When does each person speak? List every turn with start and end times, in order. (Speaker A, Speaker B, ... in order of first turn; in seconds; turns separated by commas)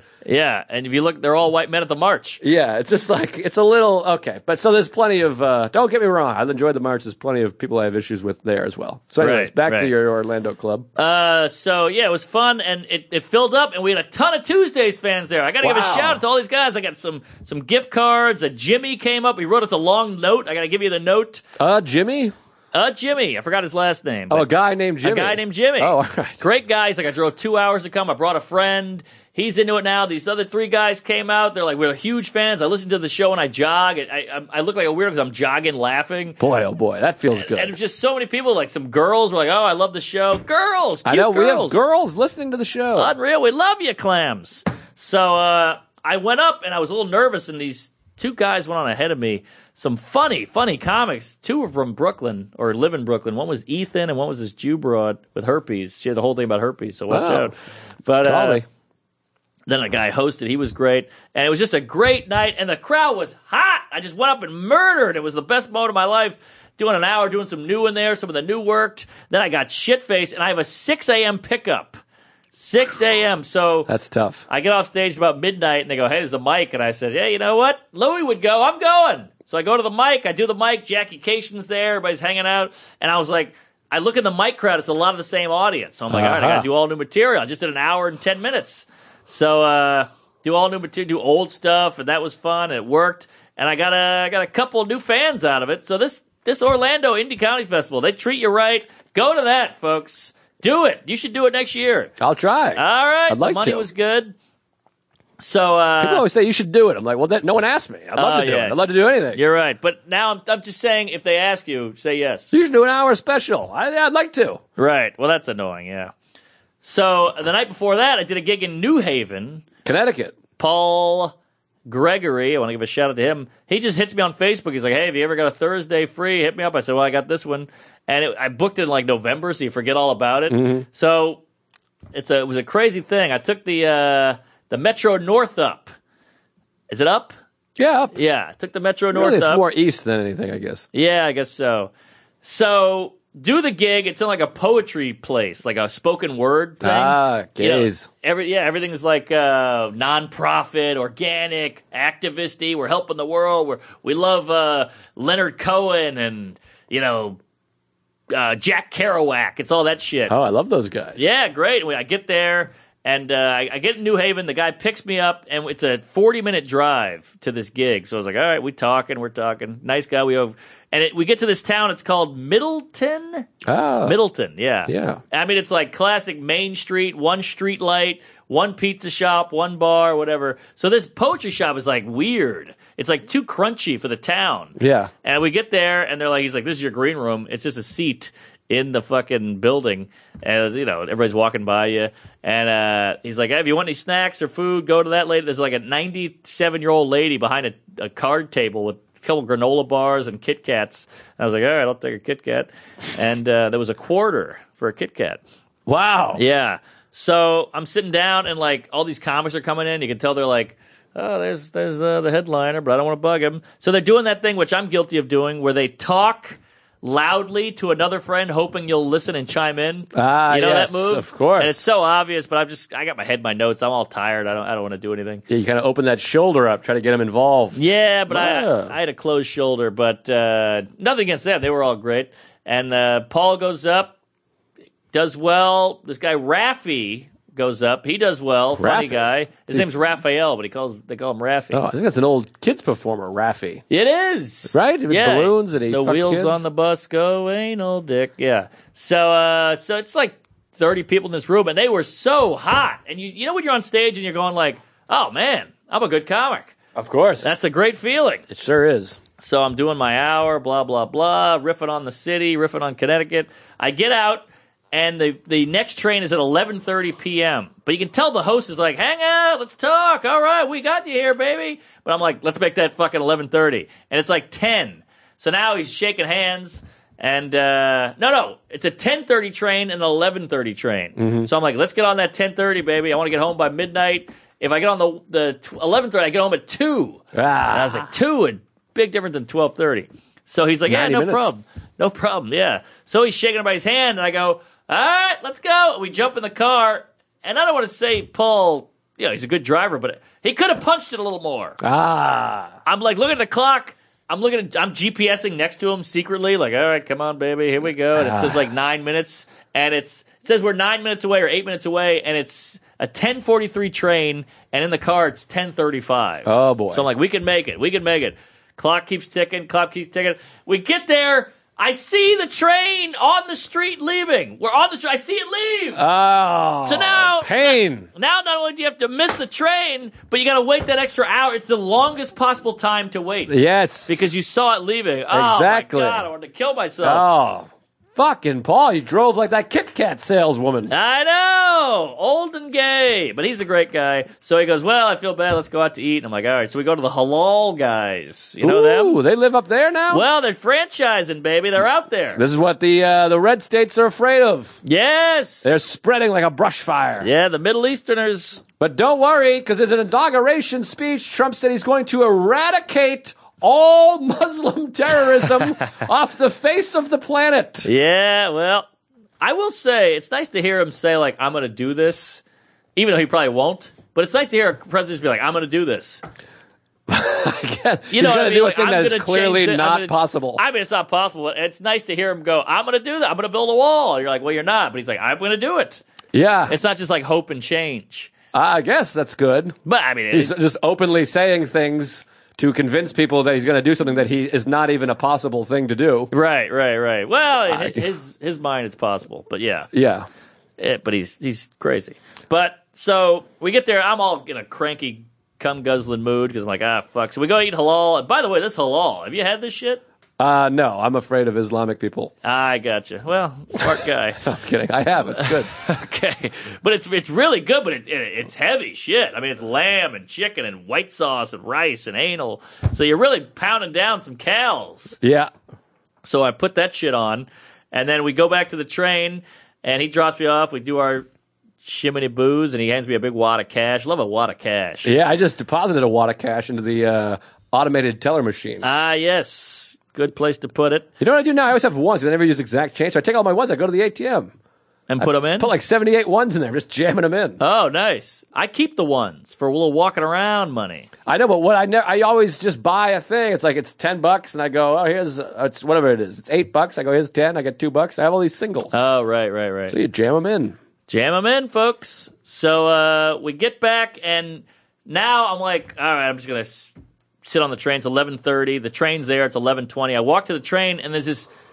Speaker A: 0.2-2.4, Speaker B: 2.4-10.9, Speaker A: 9.2-9.9, Speaker A: 11.0-21.4, Speaker B: 15.6-16.2, Speaker B: 21.6-22.3, Speaker A: 22.7-24.5, Speaker B: 24.3-26.4, Speaker A: 25.0-36.4, Speaker B: 36.4-37.7, Speaker A: 37.3-41.8, Speaker B: 41.0-43.1, Speaker A: 43.0-57.5, Speaker B: 57.1-57.5, Speaker A: 58.0-58.6, Speaker B: 58.2-58.6, Speaker A: 59.7-72.0, Speaker A: 72.5-73.9, Speaker B: 73.9-74.4, Speaker A: 74.5-102.1, Speaker B: 86.1-86.7, Speaker B: 102.2-103.9, Speaker A: 102.8-104.3, Speaker A: 105.4-106.2, Speaker B: 106.0-109.4, Speaker A: 108.2-108.8, Speaker A: 109.3-112.5, Speaker B: 112.5-114.6, Speaker A: 114.8-116.1, Speaker A: 116.8-119.7, Speaker B: 119.8-120.4, Speaker A: 120.6-121.3, Speaker A: 121.9-131.4, Speaker B: 130.5-130.9, Speaker A: 132.1-135.9, Speaker A: 136.9-137.3, Speaker B: 137.8-138.1, Speaker A: 138.1-139.6, Speaker B: 139.1-140.8, Speaker A: 140.9-141.9, Speaker A: 142.4-157.4, Speaker B: 146.8-148.1, Speaker A: 158.3-160.3, Speaker B: 160.3-161.2, Speaker A: 161.2-205.4, Speaker B: 173.7-174.2, Speaker B: 174.9-175.2, Speaker B: 184.8-185.1, Speaker B: 205.9-206.4, Speaker A: 206.3-225.4, Speaker B: 220.1-221.8, Speaker B: 225.5-227.8, Speaker A: 227.7-234.2, Speaker B: 228.3-228.9, Speaker A: 235.1-241.8, Speaker B: 238.8-239.8, Speaker B: 241.7-243.8, Speaker A: 243.9-256.8, Speaker B: 244.7-246.6, Speaker B: 256.9-257.6, Speaker A: 257.4-258.4, Speaker B: 258.5-259.2, Speaker A: 259.4-301.8, Speaker B: 281.2-281.5, Speaker B: 287.3-288.1, Speaker B: 290.9-291.5, Speaker B: 301.8-302.8, Speaker A: 302.9-326.0, Speaker B: 308.1-308.6, Speaker B: 316.4-317.1, Speaker B: 326.0-328.1, Speaker A: 326.8-337.3, Speaker B: 333.5-334.3, Speaker B: 335.3-336.3, Speaker B: 337.0-340.9, Speaker A: 340.9-349.2, Speaker B: 348.6-350.3, Speaker A: 350.1-352.4, Speaker B: 352.4-354.8, Speaker A: 354.8-355.8, Speaker B: 355.6-357.3, Speaker A: 357.2-358.6, Speaker B: 358.8-367.9, Speaker A: 367.8-368.9, Speaker A: 369.4-372.4, Speaker A: 373.0-376.2, Speaker B: 377.1-380.6, Speaker A: 378.1-386.0, Speaker B: 386.3-386.7, Speaker A: 386.7-388.3, Speaker B: 388.5-389.8, Speaker A: 389.9-390.6, Speaker B: 390.3-396.3, Speaker A: 396.3-399.9, Speaker B: 397.7-398.1, Speaker B: 399.9-400.3, Speaker A: 400.8-410.0, Speaker B: 410.4-412.3, Speaker A: 412.4-414.4, Speaker B: 414.4-415.7, Speaker A: 415.4-425.2, Speaker B: 425.2-425.5, Speaker A: 426.2-431.3, Speaker A: 431.8-435.1, Speaker B: 435.0-438.9, Speaker A: 438.8-441.1, Speaker B: 441.2-444.5, Speaker A: 445.1-445.7, Speaker B: 445.2-447.6, Speaker A: 447.6-451.1, Speaker B: 451.3-458.9, Speaker A: 458.9-460.0, Speaker B: 459.9-460.8, Speaker A: 461.1-466.9, Speaker A: 467.4-471.5